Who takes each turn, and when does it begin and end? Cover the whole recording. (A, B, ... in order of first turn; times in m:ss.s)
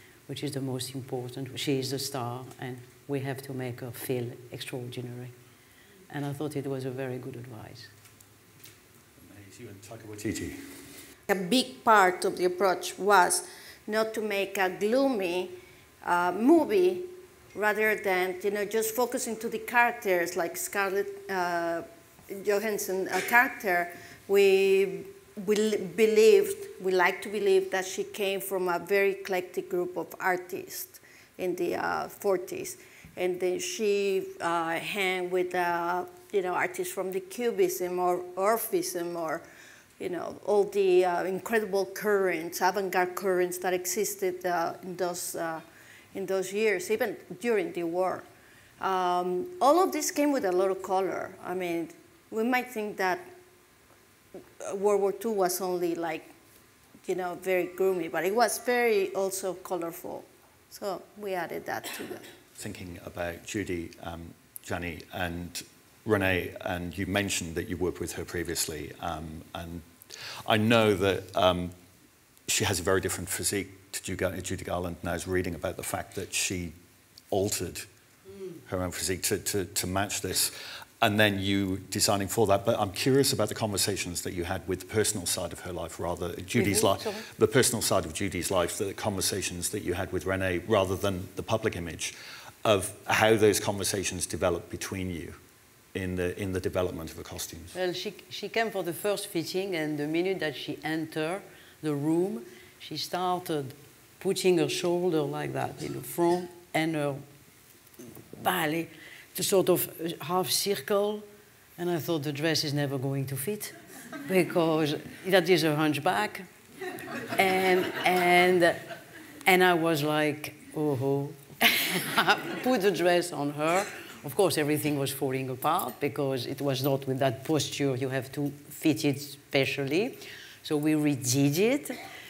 0:00.3-0:05.3 A
0:06.1-0:07.9 A
0:09.2-0:10.6 B
0:11.3-0:39.4 C
0:40.0-0:45.6 C
0:46.1-0:48.2 C
0:48.8-0:53.2 C
0:54.6-0:56.3 C
0:57.0-1:02.2 C
1:02.6-1:09.8 B
1:10.4-1:11.7 B
1:12.5-1:16.7 B
1:17.3-1:17.8 B
1:18.7-1:35.4 B
1:26.5-1:27.3 A
1:35.9-1:37.7 B
1:37.7-1:47.2 A
1:48.4-1:51.2 A
1:51.8-1:53.7 A
1:54.2-1:56.4 A
1:57.4-1:58.8 A
1:59.4-2:12.0 A